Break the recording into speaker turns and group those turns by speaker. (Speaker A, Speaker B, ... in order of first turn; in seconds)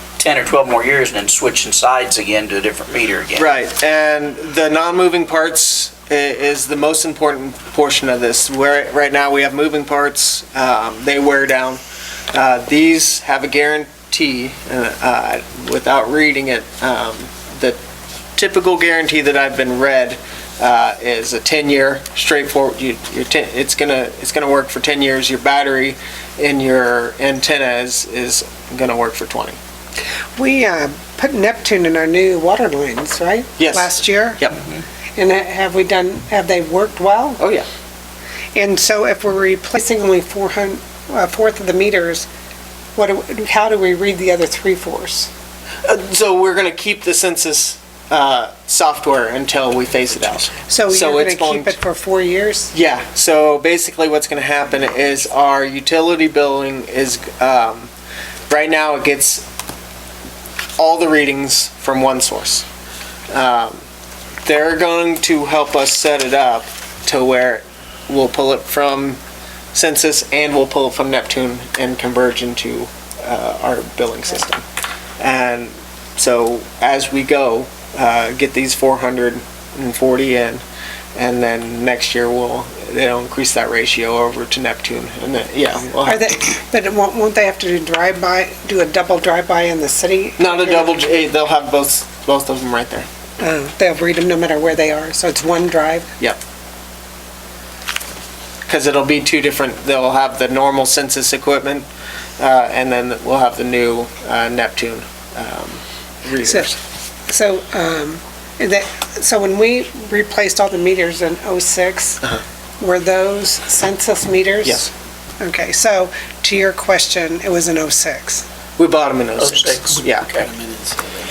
Speaker A: 0.2-3.5, 119.4-121.0
Speaker B: 3.4-11.8, 12.3-17.8, 18.4-29.6, 33.6-34.6, 37.4-37.7, 45.8-51.8, 52.7-57.9, 58.5-59.5, 60.8-62.6, 63.3-63.8, 64.4-69.2, 69.7-74.7, 75.2-80.6, 81.2-86.2, 90.4-93.1, 98.7-101.9, 102.4-106.8, 114.6-114.9, 118.8-120.3
Speaker C: 30.4-34.4, 35.1-37.4, 38.5-42.3, 43.0-45.3, 50.7-52.7, 86.0-91.0, 93.4-96.1, 106.4-106.7, 107.3-112.2, 112.8-114.8, 115.4-118.5